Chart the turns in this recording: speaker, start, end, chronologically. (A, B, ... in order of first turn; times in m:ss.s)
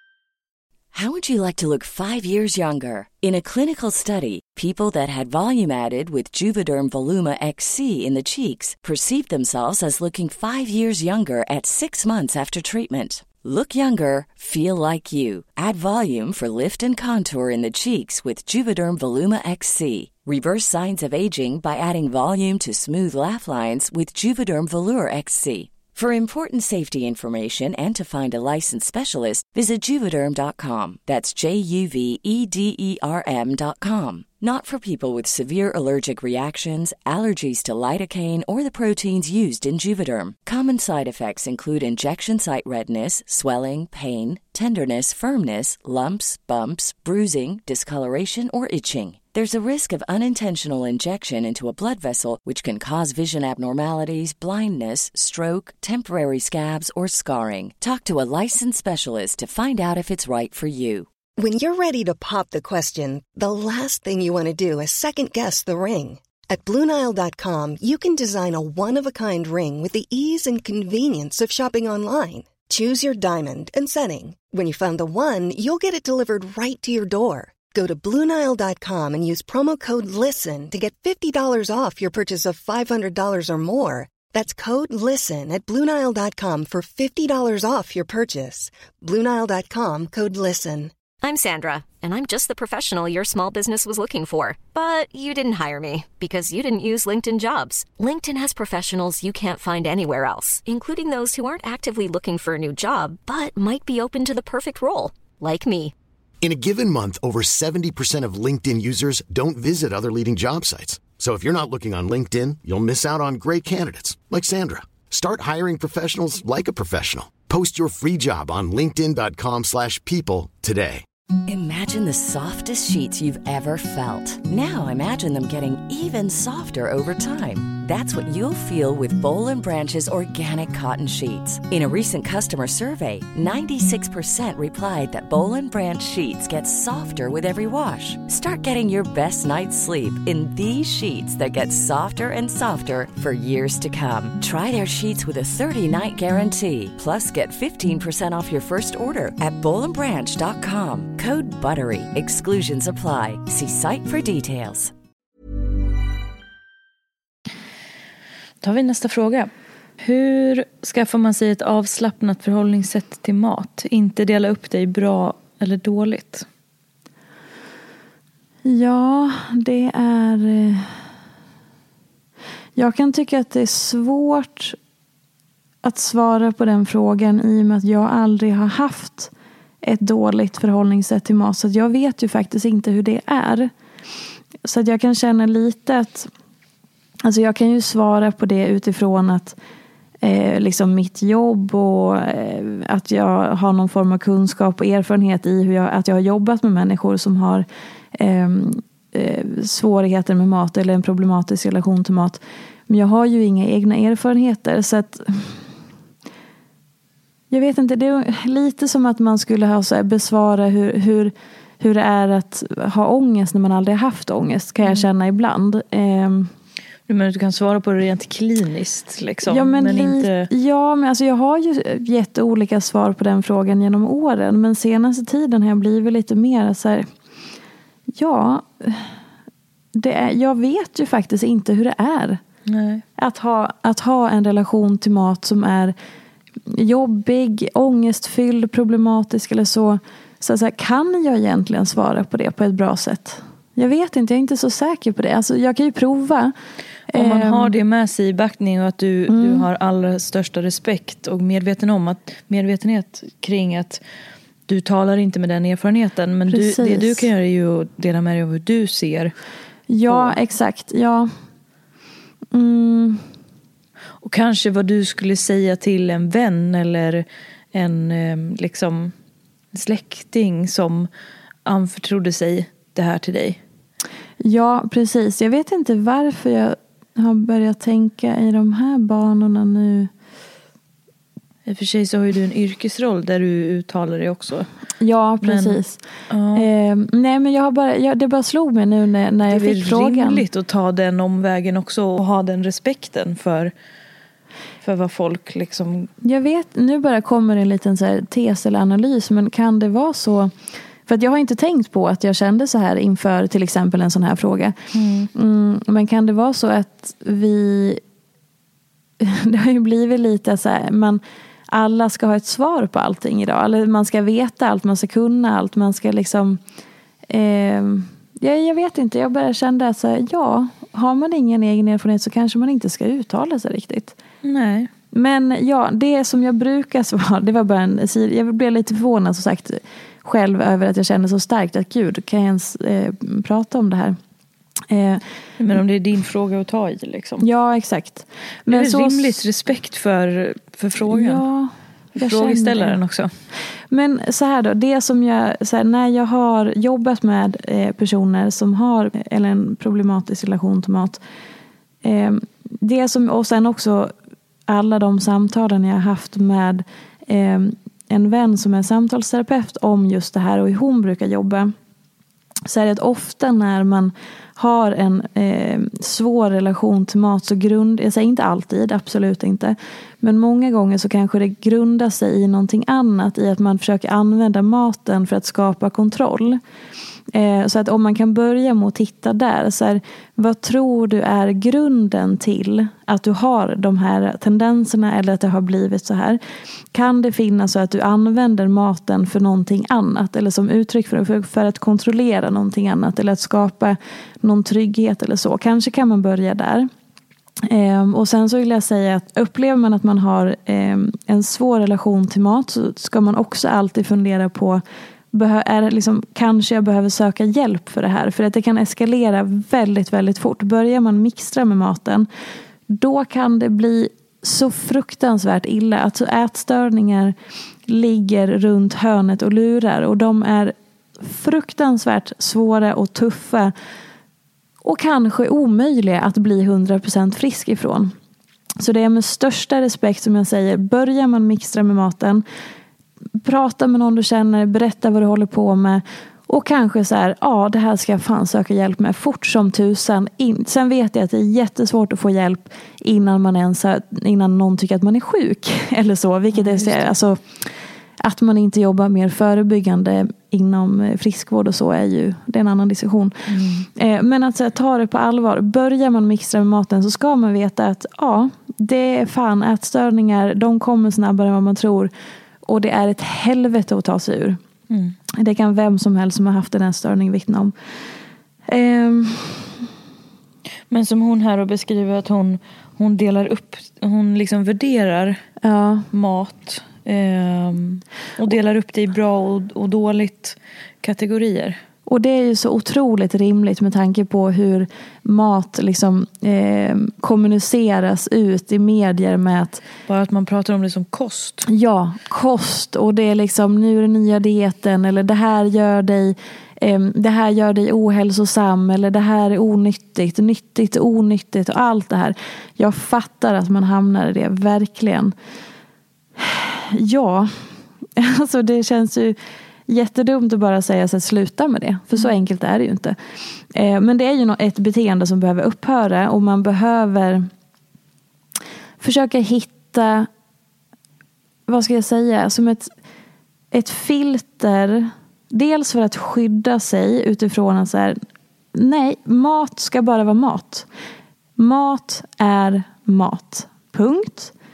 0:00.9-1:01.1 A
1:01.4-1:30.9 B
1:31.2-1:45.9 C
1:46.4-2:01.0 D
2:01.5-2:34.9 A
2:38.6-2:46.5 E
2:48.6-2:50.9 F
2:52.8-2:54.8 F
2:55.8-2:59.3 F
2:59.8-3:03.7 F
3:04.6-3:06.3 F
3:07.2-3:09.6 F
3:10.2-3:25.6 F
3:27.5-3:36.5 F
3:37.1-3:40.5 E
3:39.5-3:47.1 F
3:48.2-3:49.1 F
3:50.0-3:52.4 F
3:52.7-3:53.0 E
3:53.2-3:56.0 F
3:56.7-4:06.5 F
4:07.1-4:14.0 E
4:07.1-4:07.8 F
4:09.3-4:09.7 F
4:14.7-4:19.3 E
4:16.5-4:17.3 F
4:19.9-4:21.3 F
4:20.1-4:20.4 E
4:22.5-4:23.2 F
4:24.2-4:29.1 E
4:29.7-4:31.1 E
4:31.6-4:33.6 E
4:34.4-4:40.1 F
4:41.7-4:44.7 E
4:45.0-4:46.0 F
4:45.4-4:45.8 E
4:46.3-4:46.7 E
4:46.6-4:50.4 F
4:49.5-4:53.7 E
4:54.8-4:56.1 E
4:56.2-5:00.5 F
5:01.1-5:04.8 F
5:04.9-5:05.3 E
5:05.3-5:08.0 F
5:09.2-5:16.6 F
5:17.3-5:24.2 F
5:24.4-5:24.9 E
5:25.1-5:34.2 F
5:34.9-5:35.2 F
5:35.6-5:37.4 E
5:37.4-5:39.4 F
5:38.7-5:41.4 E
5:41.1-5:43.0 F
5:42.2-5:43.3 E
5:43.9-5:51.2 F
5:52.0-5:54.1 F
5:54.7-6:01.7 F
6:02.7-6:16.6 F
6:17.3-6:26.4 F
6:26.9-6:36.9 F
6:37.7-6:44.8 F
6:45.3-6:52.3 F
6:52.9-6:57.4 F
6:57.9-7:03.7 F
7:04.8-7:08.1 F
7:08.8-7:12.4 F
7:13.4-7:33.4 F
7:26.5-7:27.2 E
7:33.5-7:33.9 E
7:34.0-7:42.1 F
7:42.7-7:44.6 F
7:44.9-7:45.2 E
7:45.4-7:47.7 F
7:48.7-7:49.8 F
7:50.9-7:55.4 E
7:55.6-7:56.1 F
7:56.1-8:01.8 E
8:02.1-8:09.8 F
8:10.1-8:11.7 E
8:11.7-8:25.3 F
8:26.4-8:27.5 F
8:28.2-8:29.4 F
8:29.9-8:33.2 F
8:33.8-8:37.5 F
8:39.0-8:40.3 F
8:41.7-8:42.9 F
8:43.7-8:48.2 F
8:48.7-8:50.9 F
8:51.6-8:54.5 F